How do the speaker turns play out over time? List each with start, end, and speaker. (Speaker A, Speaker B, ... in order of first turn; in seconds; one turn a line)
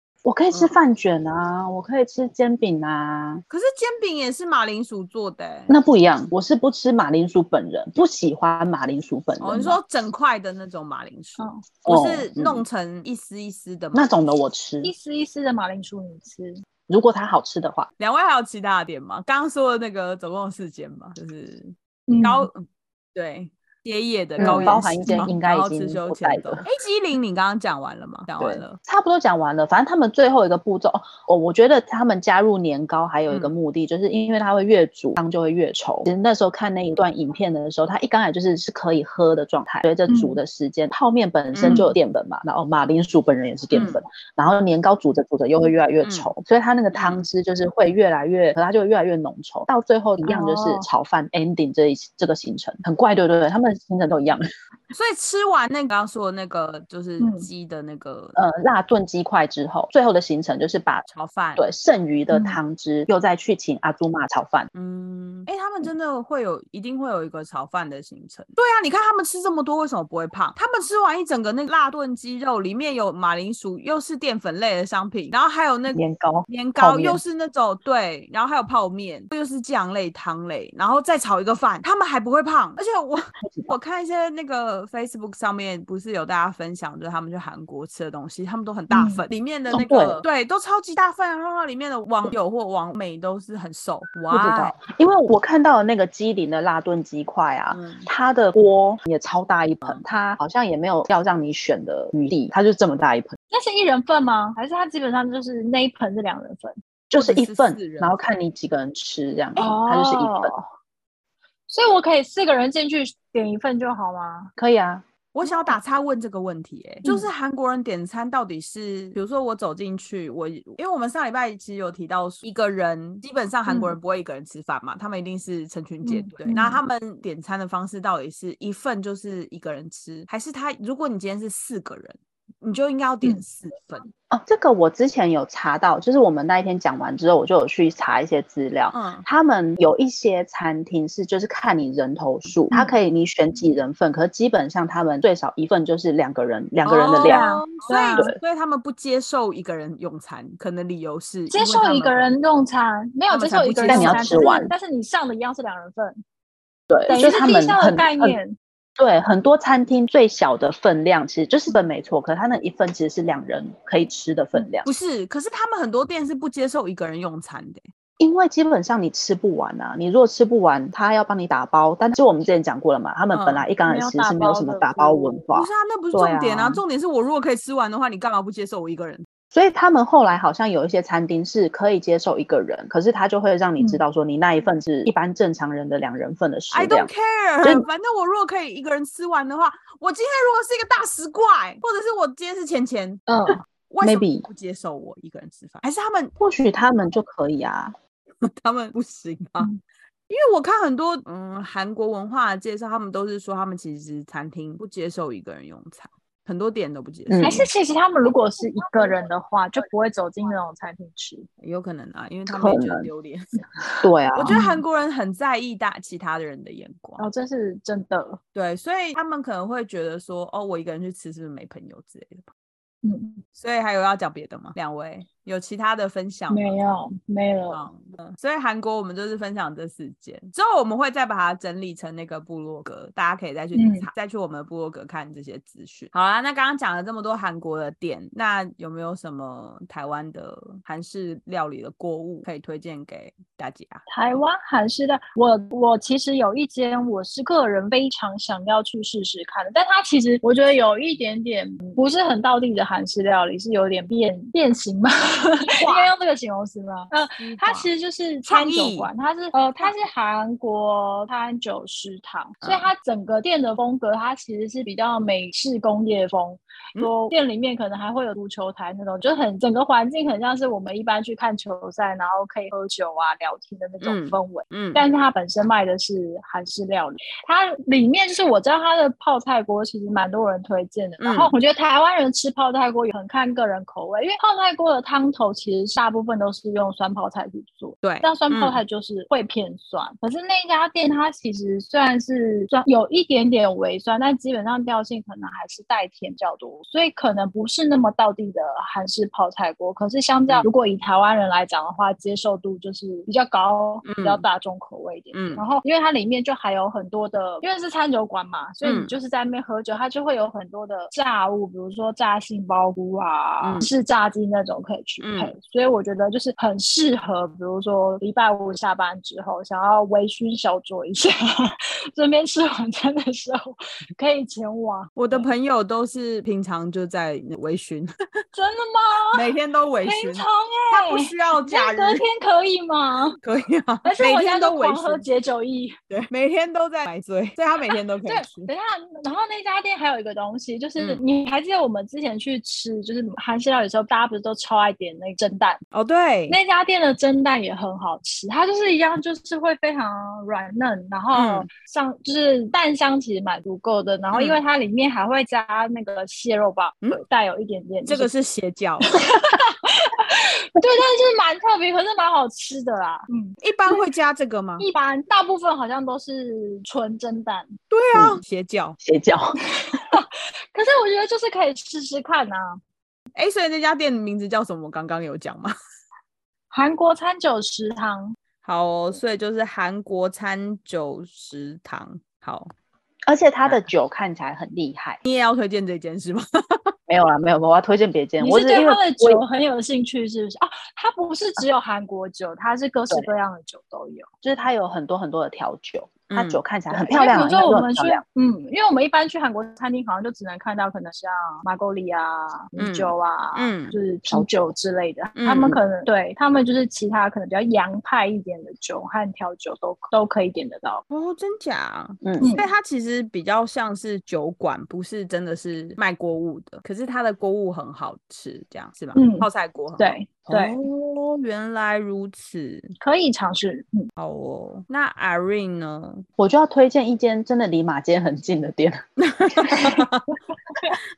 Speaker A: 0.2-3.4
Speaker B: 3.5-5.7
Speaker A: 5.7-9.8
Speaker B: 9.4-14.1
Speaker A: 11.8-12.6
Speaker A: 13.9-14.9
Speaker C: 14.8-16.6
Speaker A: 16.9-17.9
Speaker B: 18.0-28.8
Speaker C: 22.1-22.5
Speaker C: 24.4-25.3
Speaker A: 24.4-26.6
Speaker A: 28.4-54.4
Speaker B: 33.3-33.5
Speaker C: 40.1-40.4
Speaker B: 41.5-41.9
Speaker C: 41.6-41.9
Speaker B: 46.0-46.3
Speaker B: 46.9-47.2
Speaker C: 50.2-50.9
Speaker B: 54.9-58.4
Speaker C: 57.2-57.5
Speaker A: 58.4-61.0
Speaker B: 61.1-61.6
Speaker A: 61.6-64.7
Speaker C: 62.3-62.6
Speaker B: 64.7-94.8
Speaker A: 75.9-77.2
Speaker A: 83.4-83.7
Speaker C: 88.9-89.2
Speaker A: 89.7-90.2
Speaker A: 94.3-103.3
Speaker B: 97.7-98.1
Speaker C: 103.5-106.8
Speaker A: 107.1-110.5
Speaker B: 107.2-108.2
Speaker C: 109.6-110.6
Speaker C: 111.7-114.5
Speaker A: 114.6-115.0
Speaker B: 115.3-134.1
Speaker C: 115.4-115.8
Speaker C: 117.0-117.3
Speaker C: 123.7-124.0
Speaker C: 126.0-126.8
Speaker A: 134.3-147.4
Speaker B: 138.9-139.2
Speaker B: 146.8-152.3
Speaker C: 147.2-148.3
Speaker A: 148.1-148.4
Speaker C: 151.5-156.2
Speaker B: 153.3-154.5
Speaker A: 153.9-154.7
Speaker A: 156.9-158.4
Speaker C: 157.1-158.6
Speaker A: 159.0-164.9
Speaker B: 164.8-167.9
Speaker A: 168.2-176.8
Speaker B: 173.3-173.6
Speaker C: 173.8-175.4
Speaker B: 175.5-179.2
Speaker A: 179.5-187.1
Speaker B: 186.7-193.3
Speaker C: 193.3-193.6
Speaker B: 193.9-196.3
Speaker A: 194.0-194.4
Speaker A: 196.4-197.9
Speaker B: 198.4-199.7
Speaker B: 200.3-207.6
Speaker A: 207.3-207.7
Speaker C: 207.4-211.5
Speaker B: 211.6-213.5
Speaker A: 212.5-213.1
Speaker A: 214.0-214.6
Speaker B: 214.3-217.2
Speaker C: 214.5-214.8
Speaker C: 217.2-218.4
Speaker B: 218.5-222.5
Speaker C: 223.0-223.4
Speaker B: 223.6-226.8
Speaker C: 226.5-227.8
Speaker B: 227.7-244.0
Speaker C: 233.7-234.1
Speaker C: 244.1-325.5
Speaker B: 255.7-256.1
Speaker B: 257.4-257.9
Speaker B: 258.4-259.1
Speaker B: 262.6-262.9
Speaker B: 274.0-275.0
Speaker B: 281.2-281.5
Speaker B: 288.0-288.8
Speaker B: 304.0-304.4
Speaker B: 305.3-305.6
Speaker B: 308.8-309.1
Speaker B: 313.6-313.9
Speaker B: 315.2-315.5
Speaker B: 325.1-328.1
Speaker C: 328.5-329.4
Speaker B: 329.3-332.2
Speaker C: 330.0-333.4
Speaker B: 333.4-335.3
Speaker C: 334.0-336.0
Speaker B: 336.1-338.7
Speaker C: 337.9-345.8
Speaker B: 341.0-341.2
Speaker B: 345.9-346.6
Speaker C: 346.5-358.3
Speaker B: 351.3-351.7
Speaker B: 354.3-354.6
Speaker B: 358.1-359.1
Speaker C: 359.0-364.0
Speaker B: 363.6-364.9
Speaker C: 364.8-367.7
Speaker B: 367.9-369.0
Speaker A: 368.1-368.4
Speaker A: 369.0-369.6
Speaker C: 369.7-372.8
Speaker B: 373.3-375.7
Speaker C: 376.7-378.4
Speaker B: 378.6-382.7
Speaker A: 383.3-385.2
Speaker B: 385.2-386.9
Speaker A: 387.1-389.4
Speaker C: 388.4-394.3
Speaker A: 394.4-398.2
Speaker B: 396.3-396.6
Speaker C: 396.9-411.0
Speaker B: 402.8-403.9
Speaker B: 405.4-405.8
Speaker B: 411.1-422.9
Speaker A: 412.2-412.5
Speaker C: 412.4-412.7
Speaker C: 419.1-420.8
Speaker C: 423.0-424.1
Speaker B: 424.2-426.2
Speaker A: 426.4-429.0
Speaker B: 429.2-430.3
Speaker A: 429.6-430.0